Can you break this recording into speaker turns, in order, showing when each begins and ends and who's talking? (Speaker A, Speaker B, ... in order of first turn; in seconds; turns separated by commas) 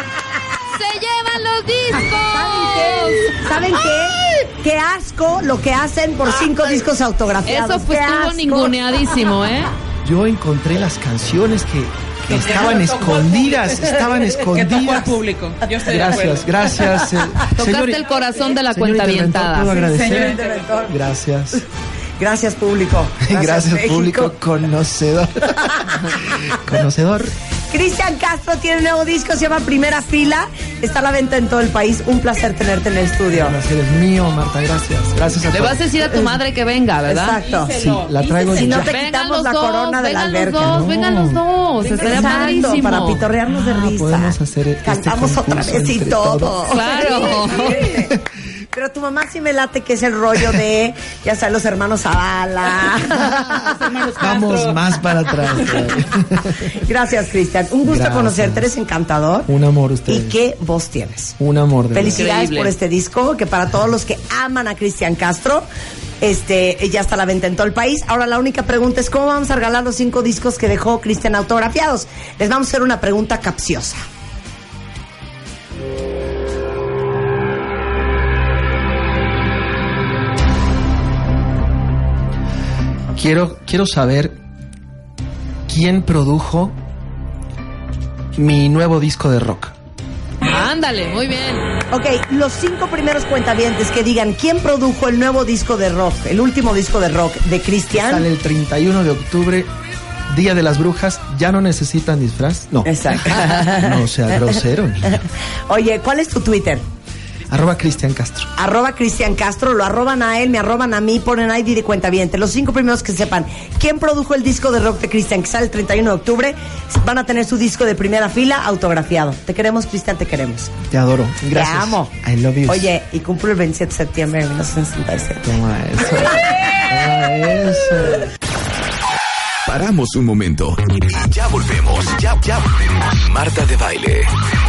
Speaker A: 0.7-3.5, Speaker B: 2.4-8.8, Speaker A: 7.5-9.7, Speaker C: 10.0-15.2, Speaker D: 12.3-17.1, Speaker C: 15.8-18.1, Speaker A: 17.5-19.7, Speaker C: 18.7-21.6, Speaker D: 19.7-20.9, Speaker B: 19.9-20.9, Speaker B: 22.2-24.3, Speaker C: 23.2-27.3, Speaker B: 25.6-26.2, Speaker B: 27.7-33.6, Speaker C: 33.3-36.1, Speaker A: 35.5-37.4, Speaker B: 37.1-37.8, Speaker D: 37.4-38.8, Speaker C: 37.7-39.0, Speaker B: 38.5-40.9, Speaker A: 38.6-43.2, Speaker C: 40.6-41.4, Speaker D: 41.8-42.8, Speaker B: 42.0-48.1, Speaker C: 43.5-46.7, Speaker A: 46.7-47.9, Speaker C: 47.9-48.2, Speaker B: 48.7-53.7, Speaker D: 53.6-54.9, Speaker C: 54.2-56.8, Speaker B: 56.7-59.5, Speaker C: 57.8-58.7, Speaker C: 59.5-60.4, Speaker B: 60.1-61.4, Speaker C: 61.4-62.3, Speaker B: 61.9-65.7, Speaker A: 62.0-62.7, Speaker B: 66.2-74.0, Speaker C: 83.1-84.4, Speaker C: 85.7-86.8, Speaker C: 88.3-89.7, Speaker A: 90.5-91.7, Speaker B: 91.9-98.2, Speaker C: 97.9-99.7, Speaker C: 100.3-105.2, Speaker B: 102.8-104.5, Speaker B: 105.1-106.8, Speaker C: 107.5-108.5, Speaker B: 108.6-120.7, Speaker C: 120.9-122.9, Speaker B: 121.5-122.1, Speaker B: 122.7-125.5, Speaker C: 125.4-128.3, Speaker E: 129.7-134.3